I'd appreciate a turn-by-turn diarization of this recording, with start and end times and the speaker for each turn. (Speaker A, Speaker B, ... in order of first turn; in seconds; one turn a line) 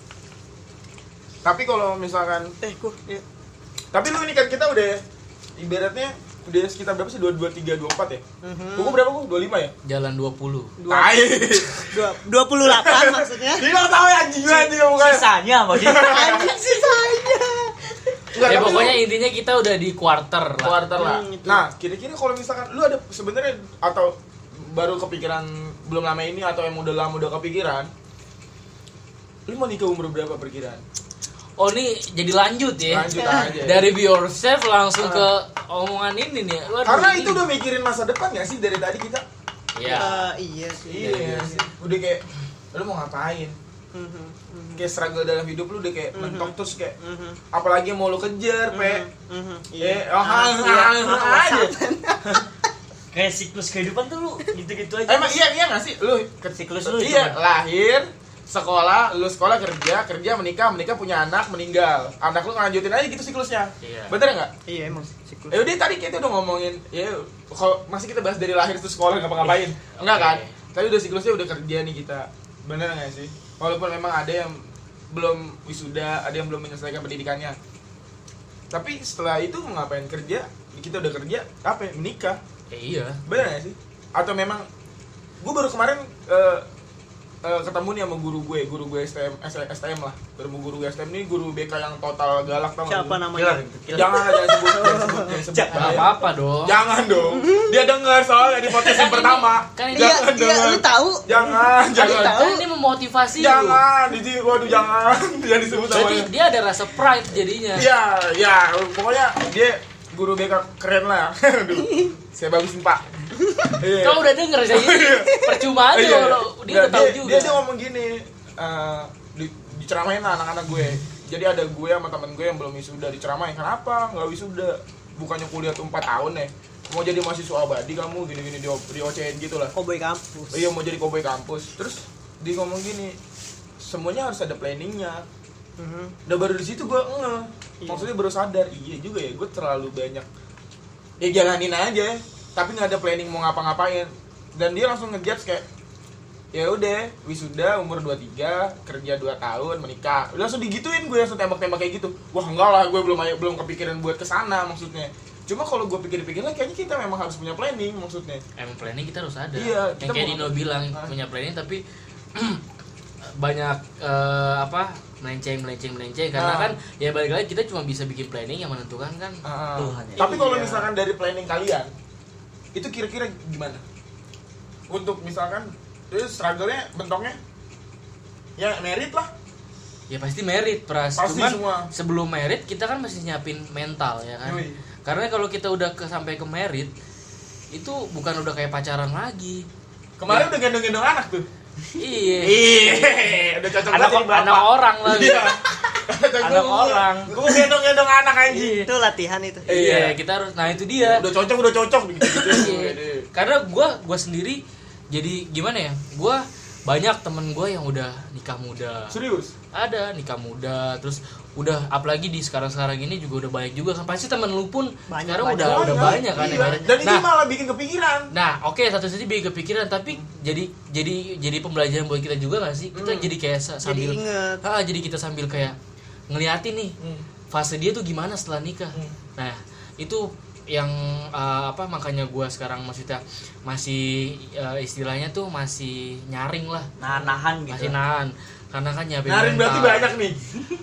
Speaker A: 1.4-2.6
Speaker B: 2.6-3.2
Speaker A: 3.9-5.0
Speaker A: 5.6-8.2
Speaker B: 8.4-9.0
Speaker A: 8.8-9.7
Speaker C: 9.8-10.8
Speaker B: 10.8-13.7
Speaker A: 10.9-12.0
Speaker A: 12.6-16.5
Speaker D: 14.5-16.5
Speaker B: 16.0-18.8
Speaker A: 18.3-19.0
Speaker C: 18.4-20.8
Speaker A: 20.6-27.9
Speaker B: 20.9-21.7
Speaker A: 29.5-30.8
Speaker C: 31.6-37.5
Speaker A: 32.9-33.9
Speaker B: 33.1-33.7
Speaker A: 35.0-35.3
Speaker A: 36.8-39.2
Speaker C: 39.8-40.3
Speaker A: 39.8-40.1
Speaker B: 39.9-41.7
Speaker A: 40.9-43.6
Speaker B: 43.9-44.9
Speaker A: 44.8-47.0
Speaker B: 46.1-47.4
Speaker A: 47.5-49.1
Speaker B: 48.7-52.5
Speaker A: 49.8-51.7
Speaker D: 53.1-55.4
Speaker A: 55.1-64.5
Speaker D: 56.5-57.4
Speaker C: 63.8-64.2
Speaker B: 64.7-65.6
Speaker A: 65.5-77.6
Speaker C: 69.5-70.5
Speaker A: 78.7-82.4
Speaker C: 82.7-83.2
Speaker A: 83.3-84.7
Speaker A: 85.4-86.7
Speaker A: 87.4-93.3
Speaker B: 92.9-95.9
Speaker D: 93.3-94.5
Speaker A: 93.9-96.1
Speaker D: 95.5-96.0
Speaker C: 95.7-96.8
Speaker A: 96.7-102.5
Speaker B: 97.2-97.8
Speaker C: 98.9-100.2
Speaker B: 99.9-102.7
Speaker C: 102.0-103.8
Speaker A: 103.4-106.3
Speaker C: 105.9-107.9
Speaker A: 107.8-113.0
Speaker B: 111.8-112.1
Speaker B: 113.4-113.8
Speaker A: 113.7-129.7
Speaker C: 113.9-117.6
Speaker B: 129.7-130.7
Speaker A: 130.5-133.2
Speaker A: 133.8-135.2
Speaker B: 135.8-136.2
Speaker A: 136.3-140.3
Speaker B: 137.8-138.1
Speaker A: 141.2-145.7
Speaker A: 146.5-158.4
Speaker C: 158.6-161.8
Speaker A: 159.6-161.2
Speaker C: 162.3-162.6
Speaker C: 163.2-169.4
Speaker A: 166.3-166.8
Speaker A: 169.4-171.9
Speaker D: 169.8-170.3
Speaker C: 170.2-170.9
Speaker A: 172.8-173.8
Speaker A: 174.9-177.4
Speaker A: 178.6-179.3
Speaker C: 180.1-186.9
Speaker A: 181.2-181.9
Speaker A: 184.4-184.8
Speaker C: 187.7-189.7
Speaker A: 190.2-191.5
Speaker C: 192.0-192.6
Speaker A: 192.4-198.9
Speaker D: 192.5-194.6
Speaker C: 194.0-195.6
Speaker C: 196.4-197.4
Speaker B: 198.7-199.7
Speaker A: 199.7-200.2
Speaker C: 199.7-201.3
Speaker A: 201.0-203.3
Speaker B: 202.4-202.7
Speaker C: 202.5-209.2
Speaker A: 209.1-209.5
Speaker C: 209.7-217.3
Speaker B: 215.1-217.0
Speaker A: 215.6-218.3
Speaker C: 218.3-225.8
Speaker A: 222.9-223.3
Speaker B: 223.8-224.6
Speaker C: 226.3-227.0
Speaker A: 227.0-227.2
Speaker C: 227.5-236.9
Speaker D: 237.0-237.9
Speaker C: 237.7-240.2
Speaker A: 239.3-240.5